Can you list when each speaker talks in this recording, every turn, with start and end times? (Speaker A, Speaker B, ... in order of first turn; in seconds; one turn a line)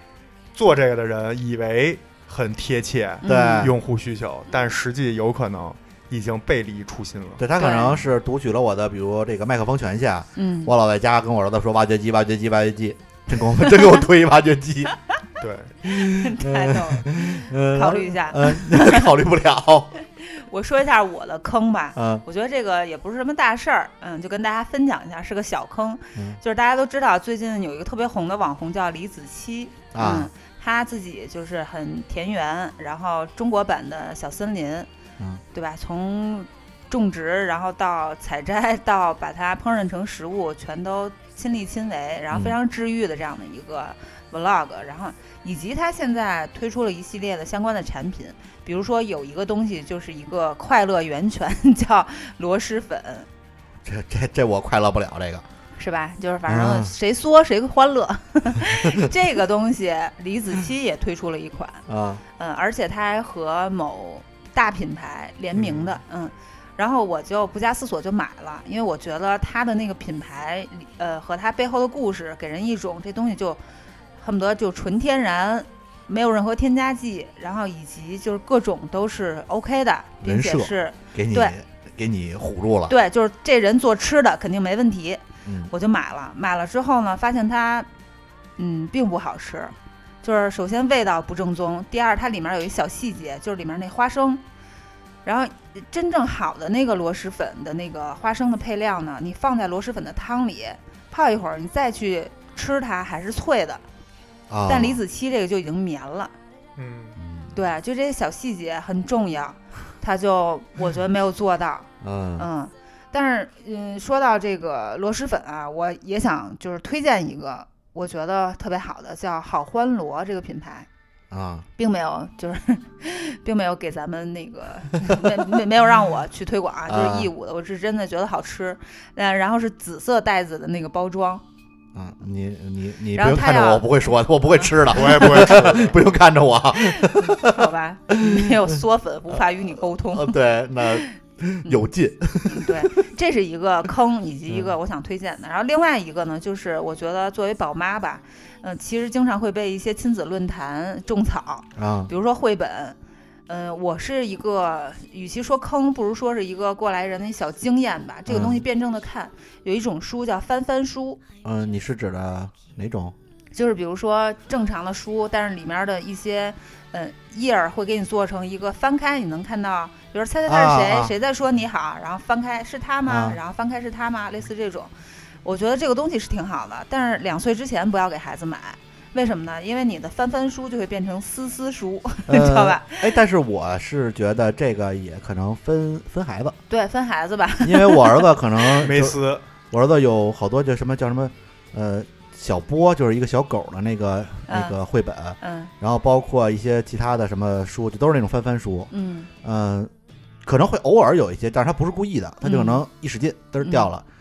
Speaker A: 0.5-7.4
Speaker B: 3.2-3.7
Speaker C: 3.2-3.7
Speaker C: 7.4-14.9
Speaker B: 7.6-8.1
Speaker B: 10.3-10.7
Speaker A: 15.4-15.7
Speaker C: 15.8-19.9
Speaker B: 16.1-19.1
Speaker B: 20.1-34.9
Speaker C: 21.9-22.2
Speaker C: 29.9-30.3
Speaker B: 35.5-53.3
Speaker C: 42.3-42.5
Speaker C: 53.8-55.4
Speaker B: 55.8-61.8
Speaker C: 56.5-56.9
Speaker C: 61.9-62.2
Speaker B: 62.4-73.6
Speaker B: 74.2-81.5
Speaker C: 80.2-82.9
Speaker B: 82.9-87.9
Speaker C: 85.4-85.7
Speaker B: 88.6-94.4
Speaker B: 95.2-103.8
Speaker C: 104.5-105.0
Speaker B: 104.7-106.3
Speaker A: 106.8-107.2
Speaker C: 107.2-107.6
Speaker B: 107.5-120.9
Speaker C: 112.0-112.5
Speaker C: 121.3-121.7
Speaker B: 121.8-131.4
Speaker C: 126.9-127.3
Speaker C: 131.9-137.7
Speaker B: 133.1-133.9
Speaker A: 134.9-136.0
Speaker B: 137.0-141.1
Speaker C: 138.2-138.6
Speaker C: 140.1-142.8
Speaker B: 141.6-141.9
Speaker B: 142.4-153.0
Speaker C: 151.8-152.1
Speaker B: 153.5-161.2
Speaker C: 158.3-158.6
Speaker C: 161.4-163.1
Speaker B: 163.5-174.9
Speaker C: 170.5-171.1
Speaker C: 173.1-173.4
Speaker B: 175.4-183.1
Speaker C: 182.3-186.6
Speaker B: 186.7-188.6
Speaker C: 187.6-189.2
Speaker A: 188.8-189.4
Speaker C: 189.7-198.9
Speaker B: 194.5-194.8
Speaker B: 195.4-195.7
Speaker B: 198.9-199.3
Speaker C: 199.4-199.9
Speaker C: 200.4-204.0
Speaker B: 202.4-202.8
Speaker B: 203.6-203.9